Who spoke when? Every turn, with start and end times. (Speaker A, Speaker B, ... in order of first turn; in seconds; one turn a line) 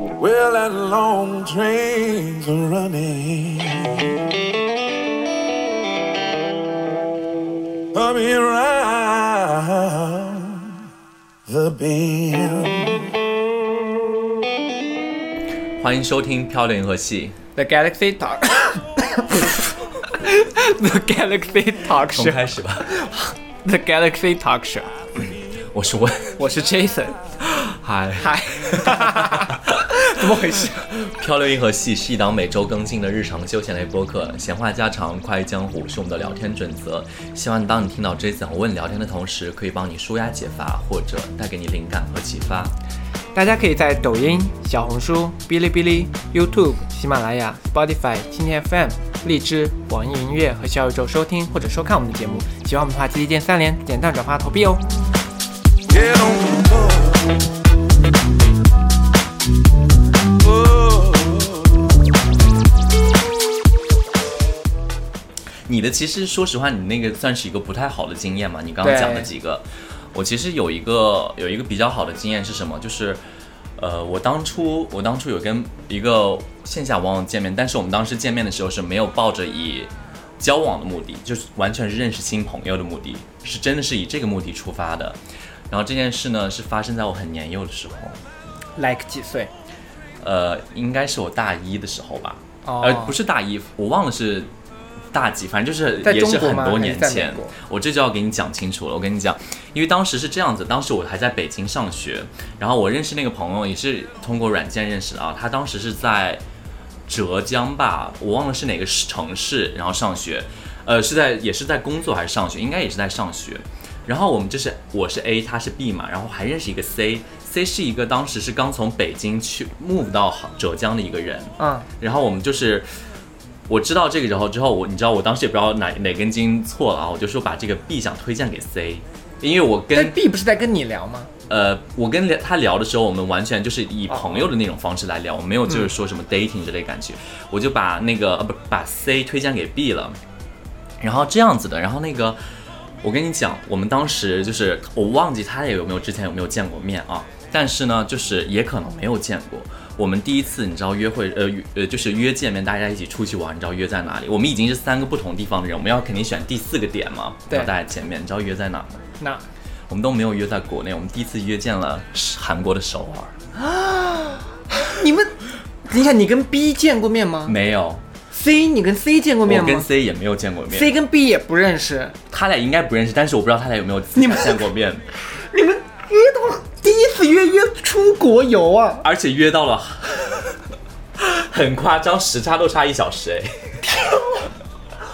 Speaker A: 0.2-4.0
Speaker A: 7.9-10.7
Speaker A: 11.5-13.0
Speaker B: 15.8-17.4
Speaker C: 17.6-24.9
Speaker B: 22.0-23.0
Speaker B: 25.7-26.4
Speaker C: 26.4-27.2
Speaker B: 27.4-29.9
Speaker C: 28.2-30.9
Speaker B: 30.6-42.8
Speaker C: 43.3-54.8
Speaker A: 55.9-57.1
Speaker A: 60.8-61.2
Speaker B: 65.7-73.2
Speaker C: 68.8-69.3
Speaker B: 73.8-85.2
Speaker B: 85.7-88.2
Speaker C: 88.8-89.5
Speaker B: 90.2-94.5
Speaker C: 92.7-93.2
Speaker B: 95.1-106.4
Speaker C: 96.0-97.5
Speaker B: 107.1-122.9
Speaker C: 121.6-121.9
Speaker B: 123.7-130.2
Speaker C: 129.9-131.3
Speaker B: 131.5-140.2
Speaker C: 134.1-134.5
Speaker B: 141.0-142.4
Speaker B: 143.0-159.0
Speaker C: 159.2-159.4
Speaker B: 159.9-163.3
Speaker C: 163.6-167.6
Speaker B: 167.5-168.0
Speaker C: 168.3-169.9
Speaker B: 169.4-170.9
Speaker C: 170.7-172.2
Speaker B: 172.3-175.1
Speaker C: 174.2-174.7
Speaker C: 175.3-179.1
Speaker B: 179.0-180.6
Speaker B: 181.2-183.8
Speaker C: 183.9-184.5